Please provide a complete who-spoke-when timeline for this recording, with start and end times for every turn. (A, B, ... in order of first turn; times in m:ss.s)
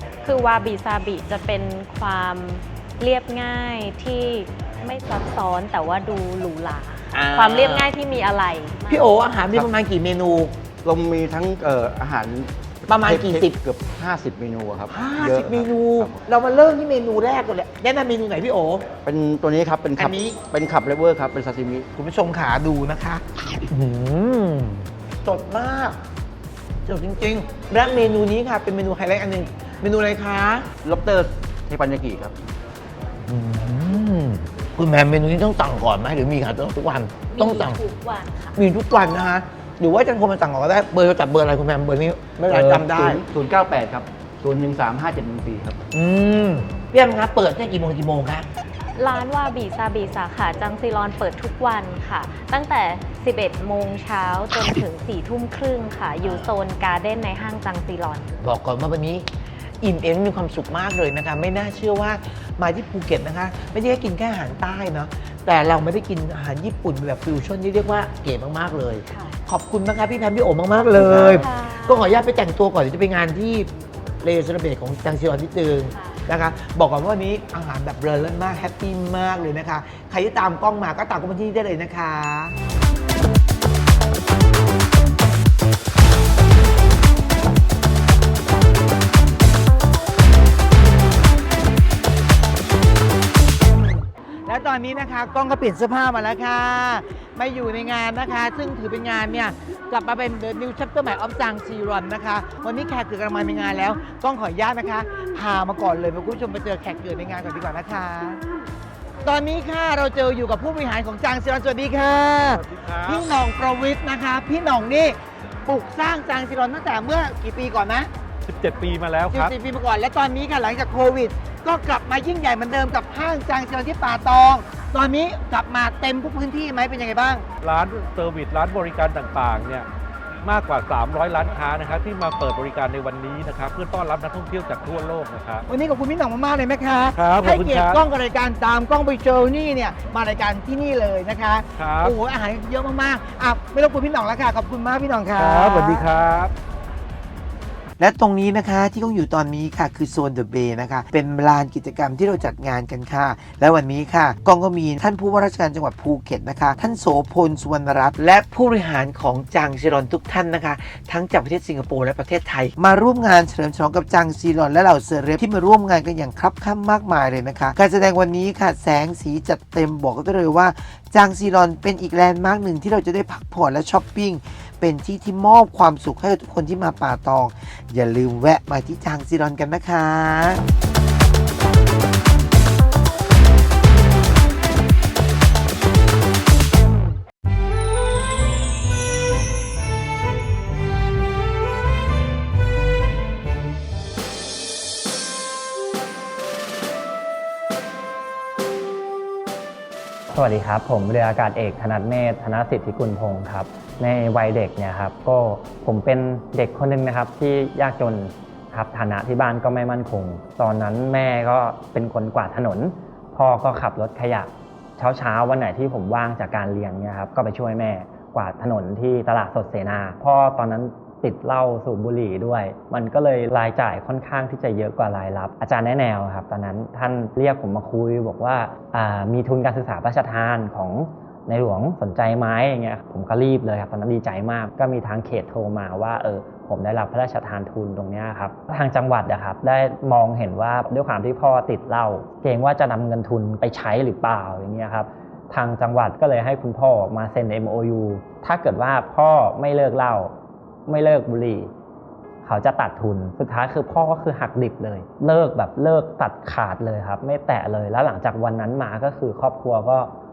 0:00.2-0:09.2 A
0:07.1-0:08.2 B
0:08.9-0:10.6 B
0:09.4-0:09.7 C
0:10.8-0:16.2 C
0:12.9-0:13.6 B
0:14.9-0:18.9 B
0:19.0-0:21.9 C
0:20.0-0:20.4 B
0:21.9-0:26.0 B
0:26.8-0:30.7 B
0:30.8-0:32.4 C
0:33.3-0:37.8 B
0:37.3-0:38.6 A
0:38.5-0:43.2 B
0:42.5-0:45.8 C
0:45.9-0:48.5 B
0:49.0-0:58.3 A
0:56.2-0:56.5 B
0:58.4-0:59.3 B
0:59.8-1:13.7 B
1:09.1-1:09.4 A
1:10.9-1:11.4 D
1:11.3-1:12.2 A
1:14.2-1:22.6 B
1:15.9-1:16.2 A
1:34.5-1:48.4 B
1:49.2-1:58.1 B
1:52.6-1:53.2 E
1:58.4-1:59.5 E
1:59.3-2:07.4 B
2:07.6-2:09.8 E
2:10.4-2:15.6 E
2:15.7-2:26.1 B
2:17.2-2:18.0 E
2:21.8-2:22.1 E
2:25.4-2:26.5 E
2:28.0-3:00.6 D
3:20.3-4:10.3 F
4:10.9-4:11.7 F
4:12.4-4:20.1 F